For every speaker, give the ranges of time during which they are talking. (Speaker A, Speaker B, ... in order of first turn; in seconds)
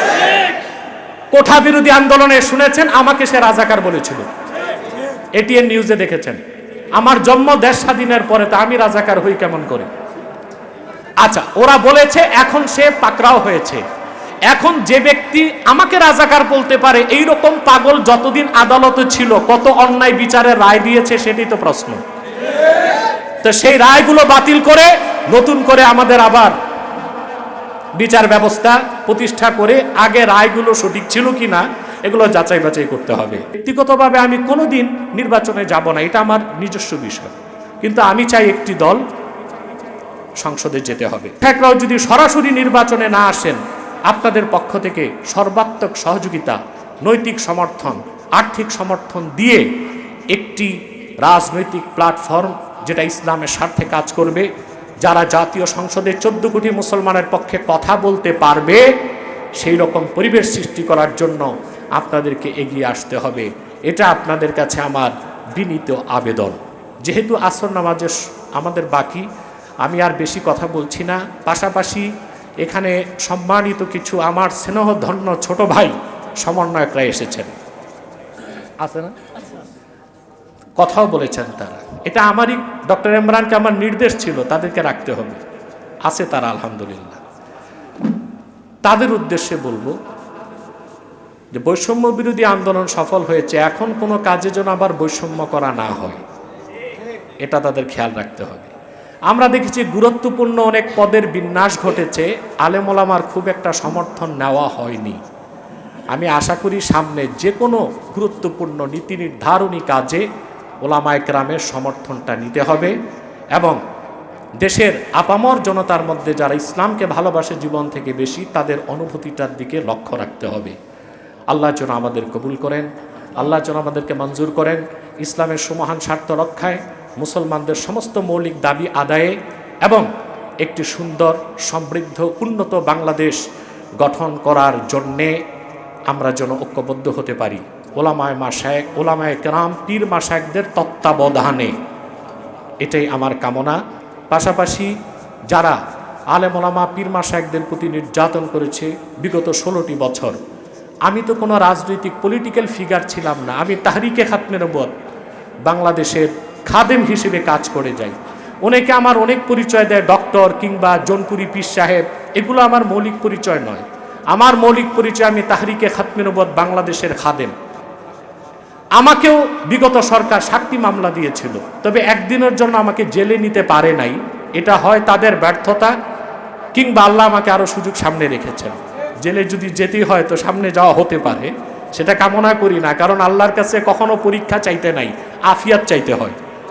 Speaker A: 1.3-4.3, 5.4-6.4, 7.0-9.9, 11.2-13.8, 14.5-22.0, 23.4-26.6, 28.0-39.0, 40.4-49.7, 50.3-54.5, 55.0-58.9, 59.6-69.3, 69.8-72.1, 72.6-77.5, 78.8-79.2, 80.8-85.4, 86.1-87.2, 88.8-90.0, 91.5-96.2, 97.4-98.7, 99.3-105.2, 106.1-110.2, 110.8-112.9, 114.6-120.8, 121.5-130.1, 130.6-133.4, 134.0-135.4, 136.1-141.7, 142.8-143.8, 144.3-144.9, 145.5-145.8, 146.3-150.4, 151.1-154.9, 155.7-167.5, 169.0-175.9, 176.8-186.4